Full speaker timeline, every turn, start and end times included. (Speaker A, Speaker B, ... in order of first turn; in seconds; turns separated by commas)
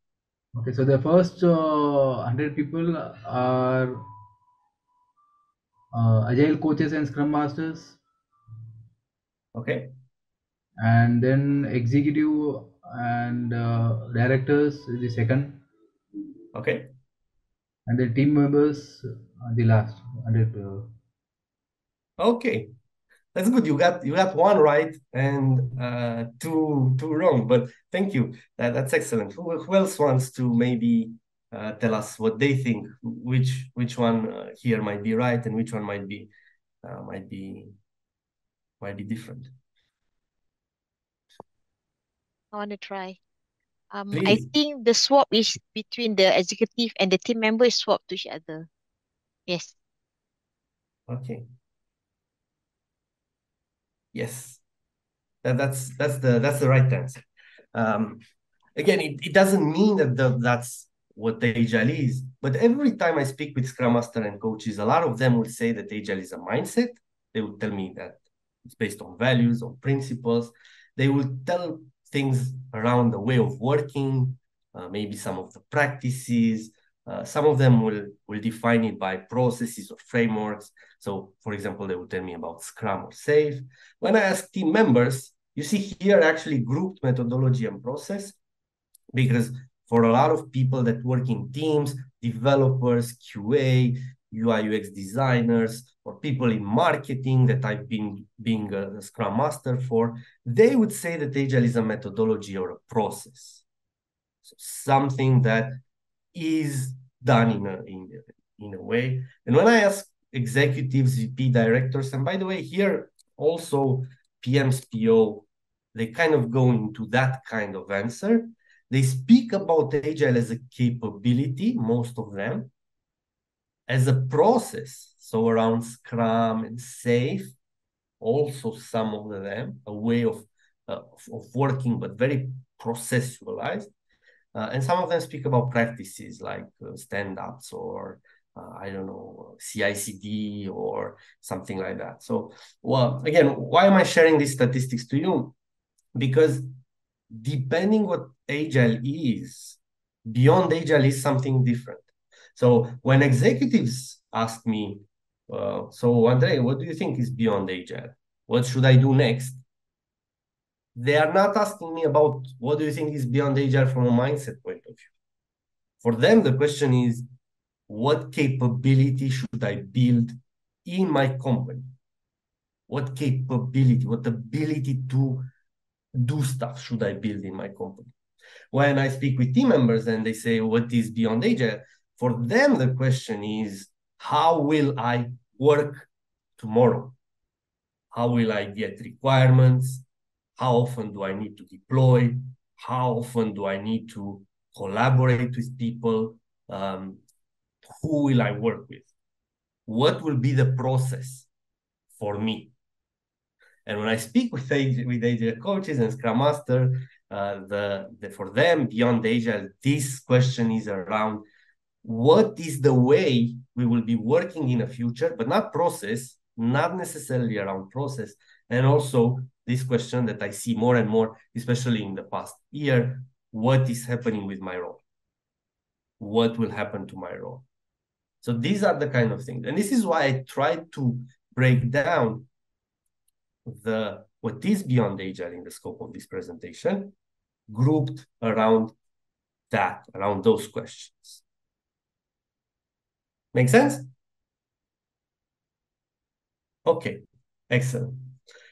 Speaker A: 0.5-4.1, Speaker A: 5.9-8.0, Speaker B: 9.5-9.9, Speaker A: 10.8-15.6, Speaker B: 16.5-16.9, Speaker A: 17.9-20.9, Speaker B: 22.2-22.7, Speaker B: 23.3-36.3, Speaker B: 36.8-37.7, Speaker B: 38.8-39.5, Speaker C: 42.5-43.2, Speaker C: 43.9-48.7, Speaker B: 44.1-44.5, Speaker C: 49.5-49.8, Speaker B: 51.1-51.4, Speaker B: 54.1-54.6, Speaker B: 55.4-58.2, Speaker B: 58.8-88.4, Speaker B: 89.1-103.6, Speaker B: 104.4-105.8, Speaker B: 106.3-122.7, Speaker B: 123.9-127.5, Speaker B: 128.2-133.9, Speaker B: 134.5-145.5, Speaker B: 146.1-146.7, Speaker B: 147.3-159.6, Speaker B: 160.9-165.1, Speaker B: 166.0-167.3, Speaker B: 167.9-171.9, Speaker B: 172.9-175.5, Speaker B: 176.1-178.1, Speaker B: 178.7-187.2, Speaker B: 188.1-190.0, Speaker B: 190.6-197.2, Speaker B: 197.8-199.1, Speaker B: 199.9-201.5, Speaker B: 202.2-202.7, Speaker B: 203.8-211.4, Speaker B: 212.0-225.0, Speaker B: 226.2-227.6, Speaker B: 228.4-232.5, Speaker B: 233.7-237.1, Speaker B: 237.7-238.9, Speaker B: 239.7-241.4, Speaker B: 243.5-244.1, Speaker B: 246.8-248.3